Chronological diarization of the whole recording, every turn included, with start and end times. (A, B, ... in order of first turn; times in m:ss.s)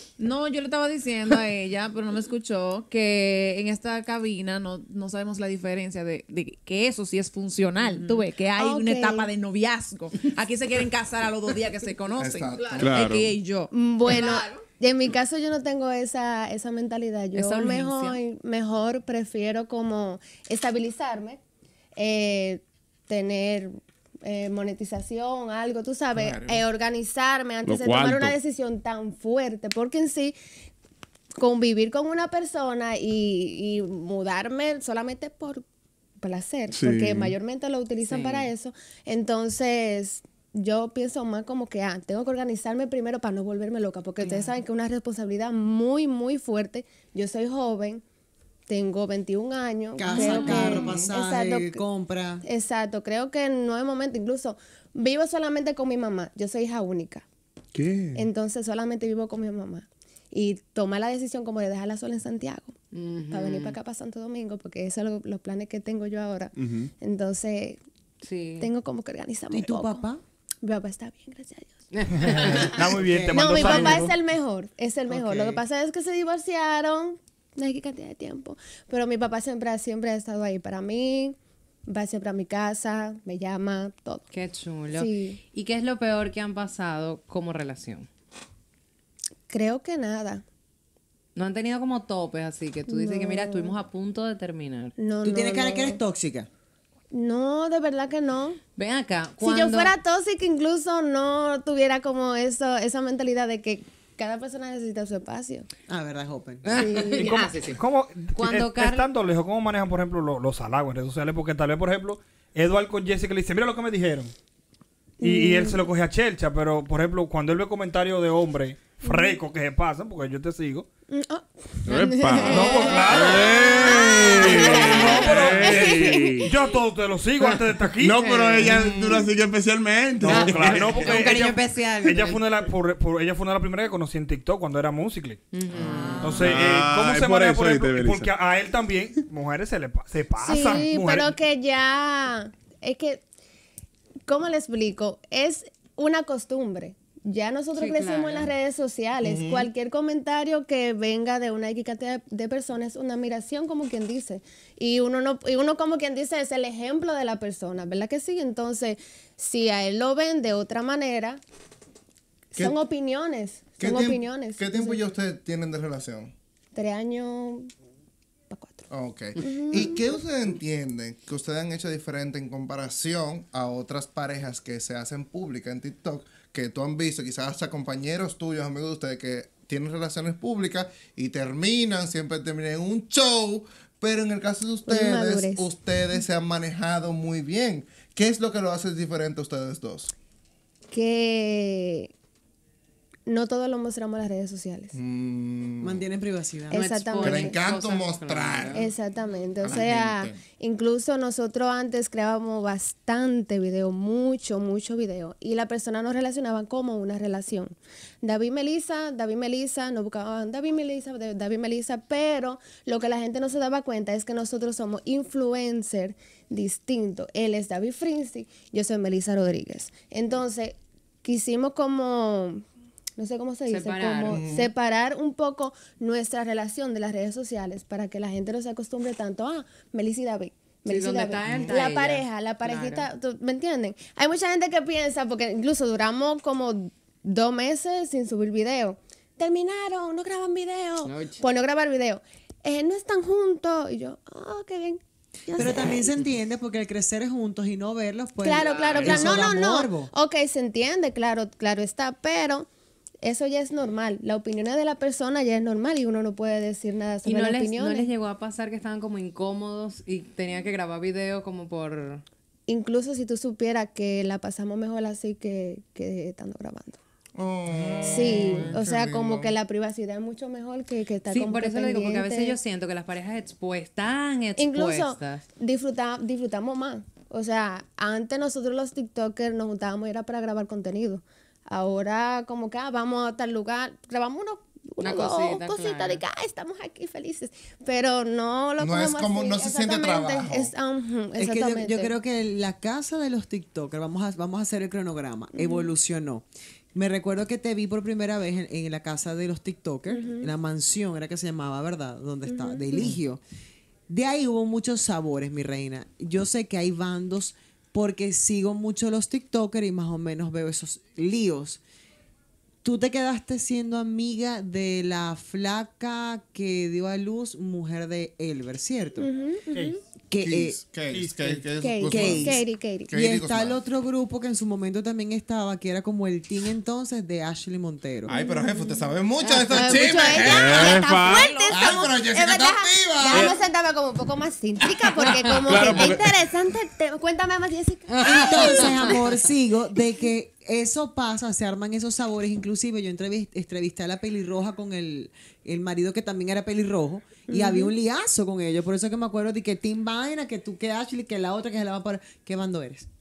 0:00.2-0:14.4 A
0:07.8-0:08.3 B
0:08.6-0:09.3 C
0:12.2-0:13.0 D
0:12.8-0:13.4 E
0:13.7-0:21.4 C
0:17.4-0:18.2 A
0:22.0-0:30.4 C
0:26.1-0:26.6 D
0:27.6-0:28.4 E
0:31.4-0:35.6 C
0:36.2-0:48.0 C
0:36.7-0:37.4 E
0:38.1-0:38.5 F
0:48.7-0:51.8 C
0:50.0-0:52.4 B
0:50.1-0:51.1 D
0:52.4-0:57.2 C
0:57.8-0:58.3 E
0:58.2-1:02.7 C
1:02.9-1:03.8 F
1:03.3-1:07.8 C
1:06.6-1:06.9 E
1:08.2-1:08.7 F
1:08.6-1:10.0 C
1:09.5-1:10.2 B
1:10.6-1:11.7 C
1:12.0-1:12.5 F
1:12.2-1:14.1 G
1:12.3-1:12.8 C
1:12.8-1:14.0 B
1:13.3-1:21.4 C
1:21.9-1:24.2 C
1:24.3-1:28.1 F
1:24.9-1:25.4 C
1:29.5-1:30.4 C
1:31.4-1:34.9 F
1:32.9-1:33.8 C
1:35.0-1:36.0 C
1:35.2-1:36.5 B
1:37.1-1:38.6 C
1:38.8-1:39.9 F
1:39.4-1:45.7 C
1:45.9-1:46.7 B
1:46.7-1:47.8 F
1:46.7-1:47.4 C
1:47.2-1:54.3 G
1:48.4-1:49.0 F
1:55.2-1:55.8 C
1:55.2-2:00.9 G
1:59.0-1:59.4 C
2:01.1-2:06.5 C
2:01.9-2:06.5 E
2:02.5-2:03.5 G
2:04.4-2:08.2 G
2:08.0-2:11.2 E
2:10.2-2:15.4 G
2:11.0-2:12.6 F
2:15.5-2:16.3 F
2:16.2-2:21.3 G
2:16.4-2:18.3 E
2:20.4-2:23.2 C
2:24.3-2:41.4 C
2:27.8-2:28.5 F
2:29.2-2:29.7 D
2:42.5-2:45.0 C
2:43.8-2:46.3 D
2:46.7-2:47.7 C
2:48.5-2:50.0 C
2:48.9-3:10.1 D
3:04.9-3:05.7 C
3:10.9-3:12.1 C
3:13.3-3:14.9 C
3:14.9-3:16.0 D
3:15.8-3:16.8 B
3:16.7-3:17.6 C
3:16.8-3:18.9 F
3:17.2-3:18.9 D
3:18.7-3:42.6 C
3:19.6-3:20.4 D
3:43.2-4:06.0 C
3:43.7-3:44.4 F
3:44.3-3:44.7 D
3:50.9-3:53.0 F
4:01.0-4:01.4 F
4:05.6-4:10.1 B
4:08.4-4:12.7 C
4:08.9-4:09.3 E
4:13.2-4:18.1 C
4:17.3-4:22.2 F
4:22.7-4:27.0 C
4:27.4-4:29.5 D
4:28.0-4:32.6 C
4:31.3-4:35.4 F
4:34.6-4:52.1 C
4:45.0-4:46.2 F
4:48.8-4:50.7 D
4:51.4-5:03.4 B
4:55.5-4:55.9 C
5:00.1-5:00.5 C
5:02.5-5:03.2 C
5:04.1-5:11.8 B
5:12.8-5:19.3 B
5:19.2-5:20.0 C
5:20.3-5:20.8 B
5:20.4-5:23.8 D
5:21.8-5:23.1 C
5:22.0-5:28.3 B
5:28.3-5:31.0 D
5:28.3-5:39.2 C
5:30.4-5:31.7 E
5:31.7-5:33.5 D
5:35.6-5:36.3 E
5:38.2-5:53.1 B
5:47.5-5:47.9 C